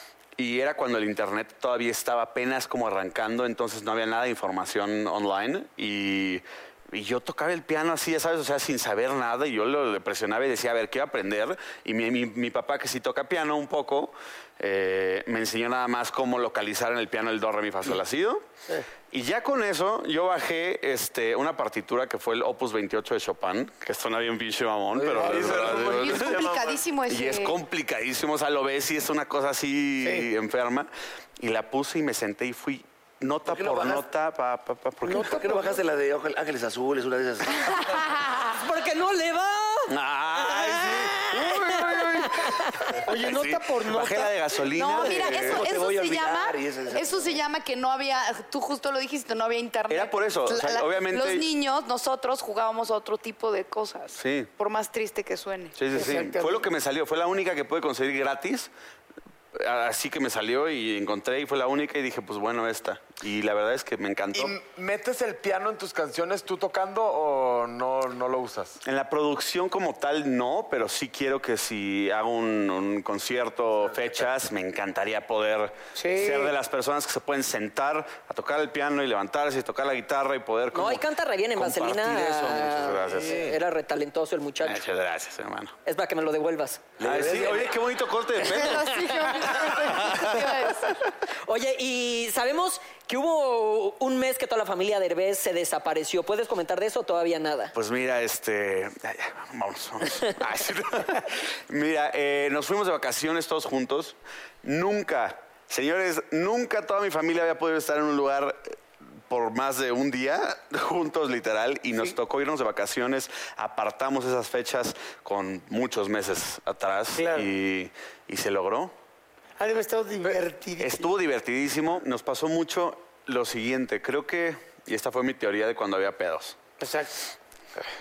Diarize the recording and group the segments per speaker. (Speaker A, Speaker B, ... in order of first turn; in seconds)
Speaker A: 0.4-18.4, 19.1-26.5, 27.1-35.4, 39.9-42.4, 43.1-45.6, 49.9-51.5, 54.1-54.5, 55.8-58.7, 59.5-64.6, 68.8-83.5, 84.6-85.7, 87.0-90.6, 97.7-108.7, 109.3-118.9, 120.8-126.6
Speaker B: 24.9-26.8, 64.3-68.8
Speaker C: 25.1-25.7, 35.0-35.8, 41.6-42.3, 43.0-44.3, 55.9-56.7, 75.9-76.5, 117.1-117.5, 119.6-121.1, 126.8-127.2
Speaker D: 25.9-27.6, 37.8-38.4, 44.7-55.8, 88.5-90.9
Speaker E: 33.5-34.0, 35.1-38.0, 45.2-47.4, 87.0-87.8
Speaker F: 38.5-43.0, 80.7-84.8, 85.8-86.8, 91.5-97.7